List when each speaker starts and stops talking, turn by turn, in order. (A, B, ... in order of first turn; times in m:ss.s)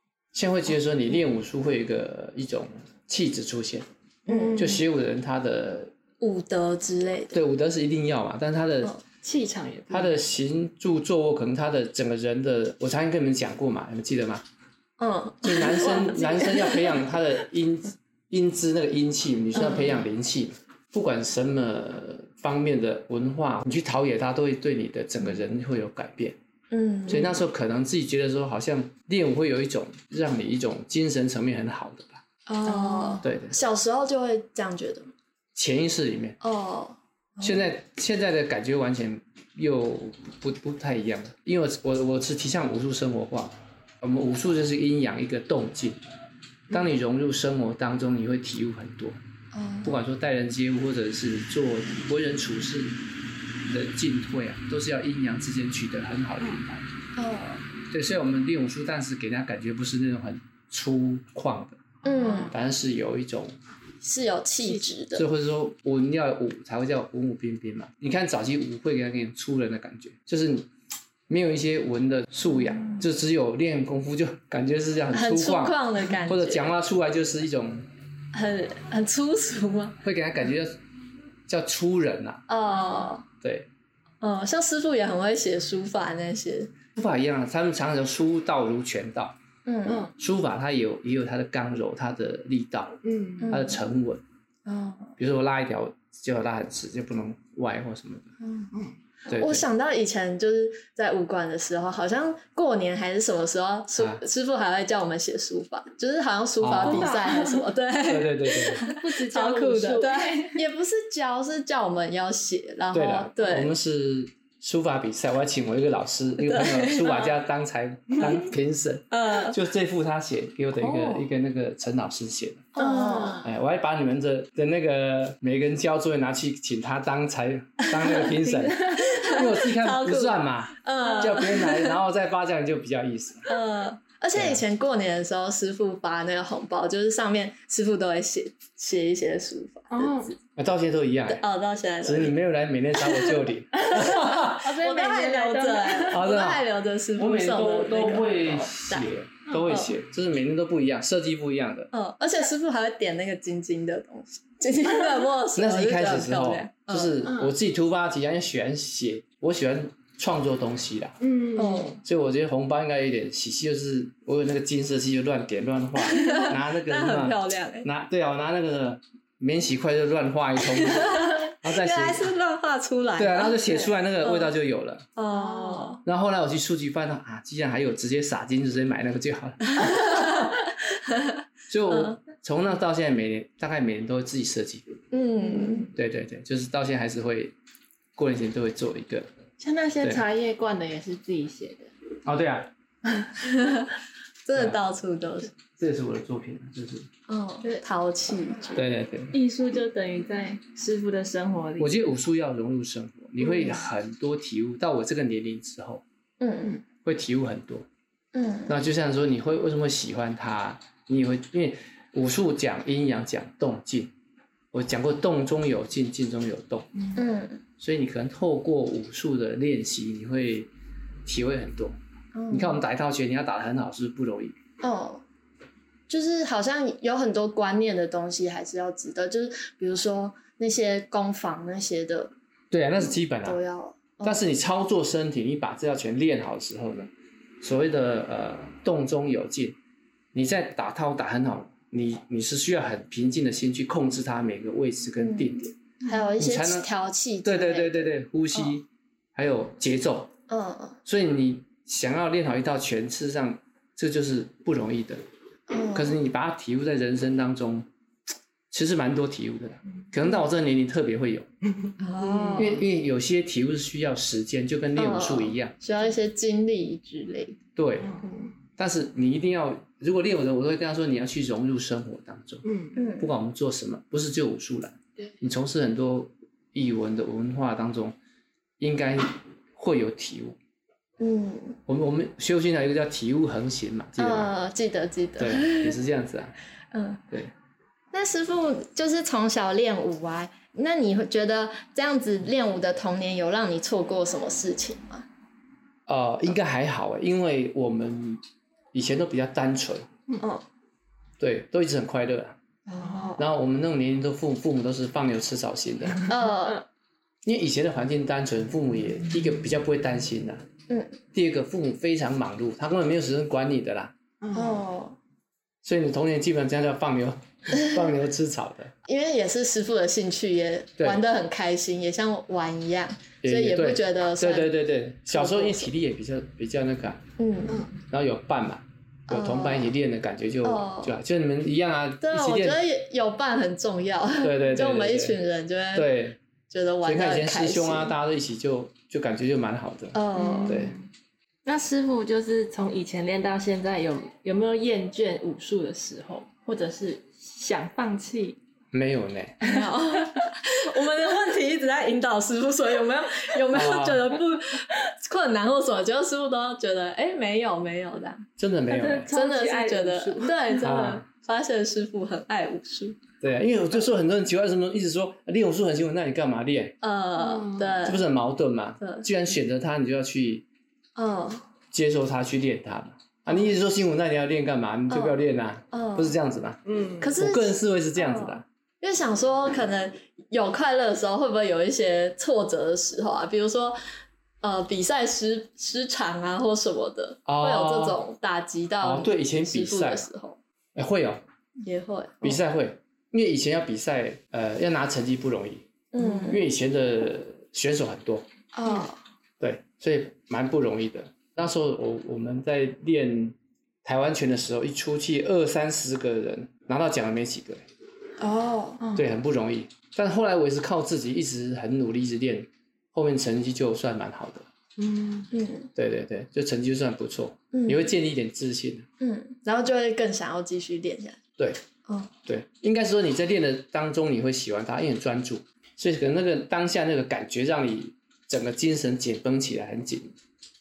0:00.3-0:03.8 A
0:04.3-0:04.6 B
0:04.3-0:04.8 C
0:04.6-0:05.9 A
0:06.2-0:07.4 B
0:07.3-0:08.9 A
0:09.2-0:10.3 C
0:09.9-0:14.4 A
0:15.0-0:16.8 B
0:15.4-0:26.4 A
0:19.5-0:20.0 B
0:26.7-0:27.4 B
0:27.1-0:32.2 A
0:32.5-0:35.1 B
0:32.6-0:33.2 C
0:33.2-0:33.6 A
0:35.5-0:36.4 A
0:36.4-0:37.6 B
0:37.4-0:46.0 A
0:46.7-0:49.2 A
0:49.5-0:50.0 B
0:49.8-0:53.0 A
0:53.7-0:56.8 A
0:57.2-0:57.6 B
0:57.9-1:01.8 A
1:02.0-1:02.5 B
1:02.1-1:02.5 C
1:02.5-1:03.5 A
1:04.0-1:05.2 B
1:04.6-1:04.9 C
1:05.1-1:10.7 A
1:11.3-1:17.9 A
1:15.1-1:16.7 B
1:18.3-1:20.0 B
1:20.0-1:20.8 A
1:21.5-1:22.4 A
1:22.5-1:23.2 B
1:23.4-1:23.7 A
1:24.2-1:26.7 B
1:27.0-1:29.4 A
1:29.6-1:30.1 B
1:29.8-1:30.1 C
1:30.2-1:34.2 A
1:33.0-1:33.6 C
1:33.4-1:33.8 B
1:34.7-1:35.0 C
1:35.2-1:38.3 A
1:38.4-1:38.7 B
1:39.3-1:39.6 A
1:39.3-1:53.7 B
1:46.6-1:47.1 A
1:46.8-1:47.6 C
1:48.0-1:48.8 A
1:48.8-1:50.6 C
1:52.9-2:02.7 A
1:56.4-1:57.3 B
1:59.1-1:59.6 B
2:02.8-2:03.4 B
2:02.8-2:03.5 C
2:03.4-2:13.5 A
2:07.8-2:12.0 B
2:08.3-2:09.2 C
2:11.0-2:11.3 C
2:13.4-2:20.3 B
2:14.3-2:14.6 A
2:19.9-2:20.3 C
2:20.6-2:21.4 A
2:21.3-2:22.4 B
2:22.0-2:24.8 A
2:23.0-2:23.4 B
2:23.7-2:26.2 C
2:23.9-2:29.1 B
2:26.1-2:31.9 A
2:29.5-2:29.8 C
2:31.9-2:37.3 B
2:35.5-2:41.2 A
2:37.2-2:37.5 C
2:41.2-2:42.0 C
2:41.6-2:42.0 B
2:42.0-2:52.2 A
2:46.0-2:47.9 B
2:50.7-2:54.5 B
2:53.2-2:55.0 A
2:55.2-2:56.0 B
2:55.3-2:56.0 C
2:56.0-3:00.1 A
2:59.6-3:01.3 B
3:01.7-3:05.0 A
3:01.9-3:02.2 B
3:05.1-3:05.9 B
3:05.5-3:05.9 C
3:05.9-3:07.5 A
3:08.2-3:09.3 A
3:09.6-3:11.9 C
3:12.2-3:12.7 A
3:13.4-3:13.9 B
3:14.4-3:15.5 B
3:15.8-3:17.1 A
3:17.3-3:18.8 B
3:18.8-3:19.4 A
3:19.3-3:22.0 C
3:21.8-3:26.0 A
3:23.4-3:23.8 B
3:26.4-3:26.8 B
3:27.0-3:27.8 A
3:28.3-3:28.8 B
3:28.7-3:34.1 A
3:34.7-3:36.9 A
3:37.0-3:37.2 C
3:37.1-3:37.6 B
3:37.8-3:40.7 A
3:41.2-3:42.0 A
3:42.3-3:42.8 B
3:42.5-3:44.5 A
3:44.8-3:45.2 B
3:46.1-3:52.3 B
3:52.7-3:53.6 A
3:53.4-3:54.4 B
3:54.2-3:57.1 A
3:57.6-3:59.8 A
4:00.3-4:05.8 A
4:05.2-4:08.7 B
4:06.4-4:06.9 A
4:07.4-4:10.3 A
4:10.5-4:11.0 B
4:11.0-4:15.2 A
4:15.7-4:16.2 B
4:15.9-4:17.9 A
4:18.7-4:21.5 A
4:21.8-4:22.8 C
4:22.0-4:22.8 B
4:22.6-4:25.8 A
4:25.0-4:27.6 B
4:27.8-4:28.2 A
4:28.0-4:28.3 C
4:28.2-4:28.5 B
4:28.8-4:32.6 A
4:32.6-4:33.0 C
4:32.9-4:33.3 B
4:33.2-4:38.2 A
4:38.8-4:40.6 A
4:41.2-4:41.8 B
4:41.9-4:44.5 A
4:44.2-4:46.0 B
4:45.4-4:46.5 A
4:46.9-4:47.2 B
4:48.1-4:55.2 B
4:56.1-4:58.4 A
4:58.9-5:00.1 A
5:01.4-5:02.6 A
5:02.9-5:03.4 B
5:03.4-5:06.3 A
5:06.3-5:06.8 B
5:07.4-5:10.6 A
5:10.9-5:11.2 B
5:11.3-5:14.1 A
5:14.4-5:14.8 C
5:14.5-5:15.2 B
5:15.8-5:18.9 A
5:19.0-5:24.7 B
5:23.4-5:27.2 A
5:25.3-5:25.9 B
5:27.4-5:27.9 B
5:27.7-5:28.0 C
5:28.1-5:32.8 A
5:29.3-5:29.9 B
5:30.6-5:31.2 B
5:32.2-5:36.1 B
5:34.4-5:35.4 A
5:35.9-5:36.4 A
5:36.7-5:38.1 B
5:37.0-5:41.0 A
5:40.1-5:40.9 B
5:40.4-5:41.0 C
5:41.6-5:48.6 C
5:48.9-5:49.6 A
5:49.6-5:58.4 B
5:49.6-5:50.4 C
5:53.7-5:54.3 A
5:58.6-5:59.3 A
5:58.9-6:00.8 C
5:59.3-6:03.2 B
6:00.8-6:01.2 A
6:03.4-6:07.0 A
6:07.0-6:08.2 B
6:07.4-6:08.0 C
6:08.0-6:10.6 A
6:11.2-6:11.6 B
6:11.9-6:16.8 A
6:13.5-6:13.7 B
6:15.1-6:15.4 B
6:15.9-6:16.4 B
6:16.8-6:17.3 C
6:17.2-6:24.0 B
6:17.4-6:18.6 A
6:24.6-6:30.6 B
6:27.4-6:28.2 A
6:29.0-6:30.3 A
6:31.0-6:31.4 A
6:31.8-6:32.6 B
6:32.4-6:35.8 A
6:36.1-6:36.7 B
6:36.4-6:38.4 A
6:38.7-6:39.2 B
6:39.6-6:47.8 A
6:48.4-6:49.0 B
6:49.0-6:49.2 C
6:49.1-6:54.6 A
6:55.0-6:55.5 C
6:55.5-6:55.9 B
6:56.0-6:59.0 A
6:57.7-6:58.1 B
6:59.2-7:01.4 B
7:02.0-7:02.3 B
7:02.4-7:10.3 A